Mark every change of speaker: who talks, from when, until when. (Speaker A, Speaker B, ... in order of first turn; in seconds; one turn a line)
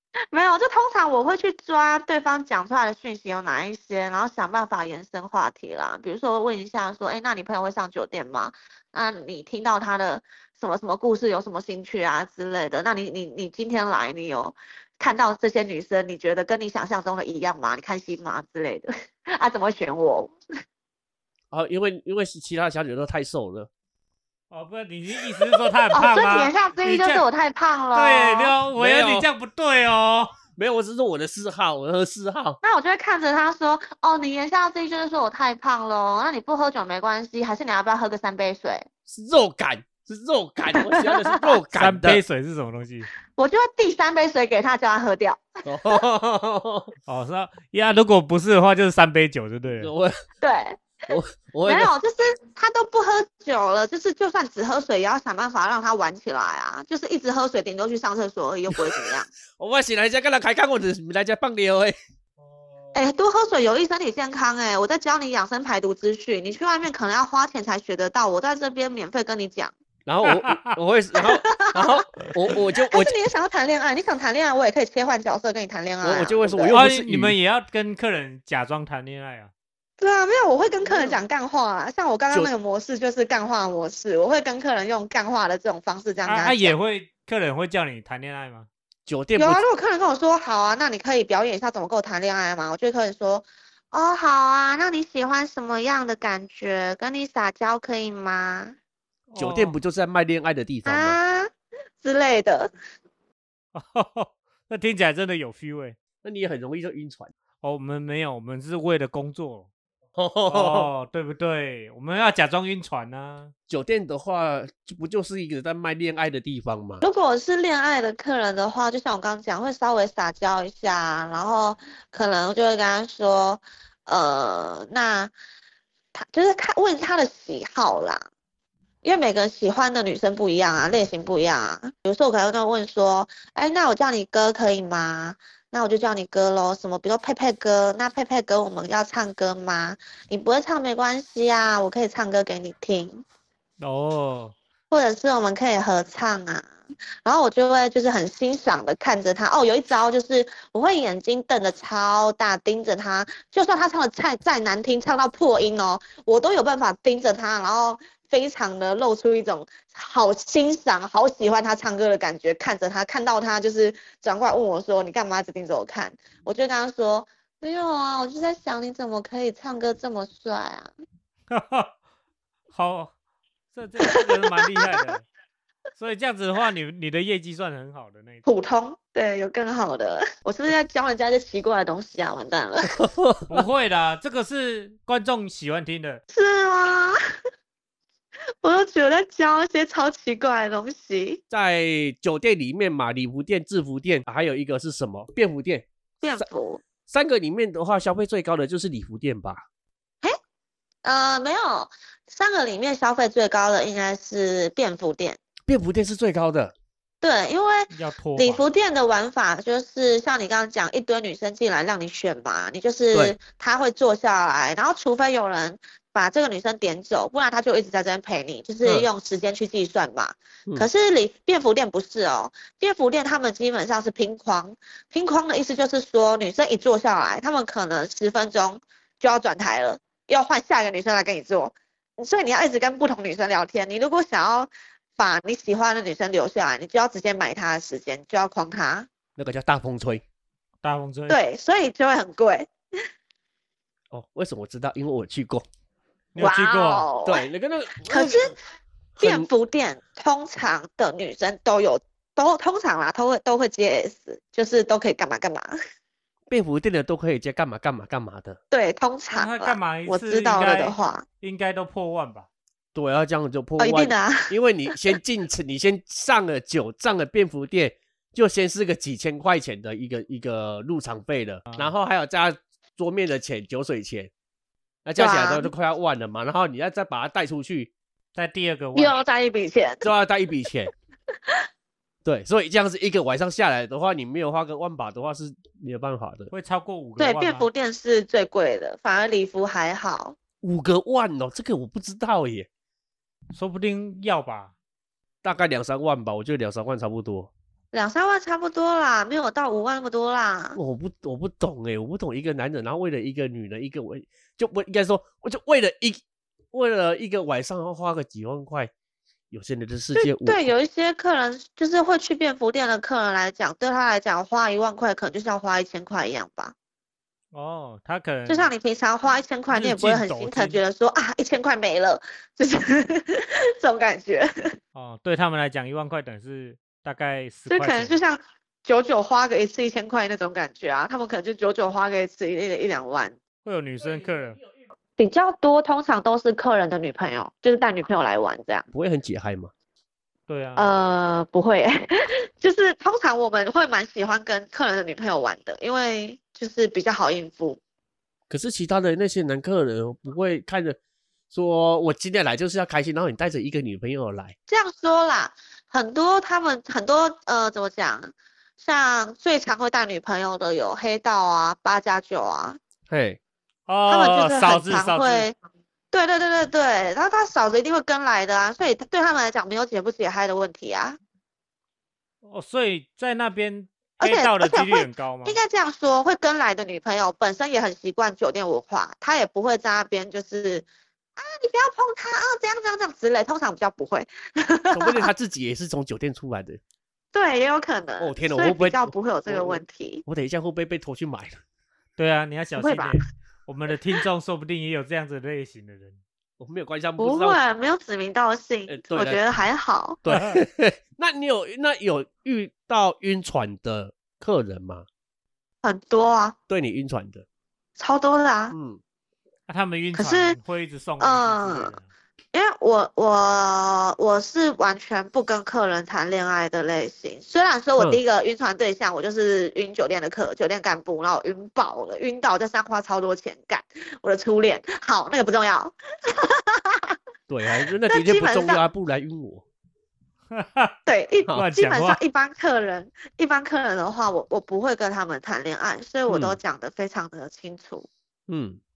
Speaker A: 0.3-20.3
Speaker B: 21.5-23.7
Speaker C: 24.5-27.2
Speaker A: 25.9-28.5
Speaker C: 27.9-30.4
Speaker B: 28.8-29.3
Speaker B: 30.6-32.6
Speaker A: 32.6-38.9
Speaker B: 39.1-42.2
Speaker A: 40.7-41.5
Speaker C: 41.7-43.1
Speaker A: 43.4-46.0
Speaker B: 45.6-46.9
Speaker C: 47.1-49.9
Speaker B: 49.8-50.2
Speaker A: 50.4-50.9
Speaker B: 51.1-51.9
Speaker A: 51.7-59.3
Speaker B: 58.7-62.0
Speaker C: 62.4-63.0
Speaker A: 62.9-69.7
Speaker B: 70.1-73.1
Speaker C: 70.2-70.8
Speaker A: 71.2-72.3
Speaker A: 72.9-76.8
Speaker B: 76.0-77.4
Speaker C: 76.7-79.5
Speaker A: 80.0-86.8
Speaker C: 86.3-88.7
Speaker B: 89.1-89.6
Speaker A: 89.4-98.8
Speaker C: 99.3-99.8
Speaker B: 99.4-101.2
Speaker A: 100.9-101.5
Speaker A: 102.0-102.7
Speaker C: 103.7-106.0
Speaker B: 106.2-107.3
Speaker C: 107.6-109.7
Speaker B: 110.2-110.9
Speaker C: 110.5-113.5
Speaker B: 113.7-117.0
Speaker A: 117.0-125.3
Speaker A: 126.1-128.2
Speaker A: 129.0-143.2
Speaker C: 143.8-144.5
Speaker A: 144.9-146.7
Speaker A: 147.2-170.9
Speaker C: 171.5-171.9
Speaker C: 172.7-173.1
Speaker C: 173.7-175.2
Speaker A: 174.0-175.0
Speaker C: 176.0-178.4
Speaker A: 178.4-183.0
Speaker B: 182.9-183.7
Speaker C: 183.5-186.2
Speaker A: 186.3-187.2
Speaker A: 188.6-191.4
Speaker B: 191.5-195.9
Speaker A: 196.2-196.8
Speaker B: 197.1-199.6
Speaker A: 201.0-205.4
Speaker B: 205.7-206.7
Speaker A: 207.2-239.1
Speaker C: 207.9-208.6
Speaker B: 239.4-240.2
Speaker C: 240.8-241.4
Speaker A: 241.3-242.7
Speaker B: 244.1-245.7
Speaker C: 246.3-247.1
Speaker A: 246.4-247.4
Speaker B: 247.2-248.6
Speaker A: 248.1-248.6
Speaker B: 249.2-249.5
Speaker A: 249.2-255.8
Speaker B: 256.5-258.6
Speaker A: 258.7-261.2
Speaker C: 259.3-262.5
Speaker B: 262.9-274.3
Speaker A: 263.8-264.5
Speaker B: 275.1-277.9
Speaker A: 275.2-275.7
Speaker C: 278.4-279.2
Speaker A: 278.9-280.1
Speaker B: 280.0-280.9
Speaker B: 282.2-286.5
Speaker C: 286.5-287.7
Speaker A: 287.2-290.4
Speaker B: 290.6-292.7
Speaker C: 293.5-294.7
Speaker B: 295.4-297.5
Speaker A: 297.9-300.8
Speaker B: 300.8-308.9
Speaker B: 309.5-310.7
Speaker A: 310.1-316.7
Speaker C: 317.5-318.7
Speaker A: 318.5-324.5
Speaker C: 319.7-320.8
Speaker C: 324.9-328.2
Speaker A: 327.7-333.4
Speaker C: 333.6-334.6
Speaker B: 334.0-334.8
Speaker A: 335.2-338.9
Speaker B: 338.9-339.7
Speaker C: 340.5-340.9
Speaker A: 340.8-342.1
Speaker A: 342.6-347.8
Speaker B: 348.5-351.0
Speaker B: 351.5-354.6
Speaker A: 354.7-362.8
Speaker B: 363.1-363.4
Speaker C: 363.9-365.5
Speaker A: 364.1-365.6
Speaker A: 366.1-371.2
Speaker C: 372.4-375.6
Speaker A: 374.2-380.9
Speaker A: 381.4-385.3
Speaker B: 384.9-386.8
Speaker A: 387.3-390.2
Speaker B: 388.2-391.6
Speaker C: 392.2-396.2
Speaker A: 392.8-393.2
Speaker B: 396.6-397.6
Speaker A: 397.2-400.2
Speaker B: 398.9-399.4
Speaker B: 400.2-405.1
Speaker C: 400.3-400.6
Speaker A: 405.8-406.6
Speaker B: 406.7-407.4
Speaker A: 408.0-408.8
Speaker B: 408.7-409.0
Speaker C: 409.7-412.1
Speaker A: 410.1-410.6
Speaker A: 411.2-411.9
Speaker A: 412.5-427.1
Speaker B: 427.5-429.6
Speaker A: 428.1-428.8
Speaker C: 430.5-431.0
Speaker A: 431.1-438.1
Speaker C: 431.5-432.2
Speaker B: 436.3-436.6
Speaker B: 438.5-438.8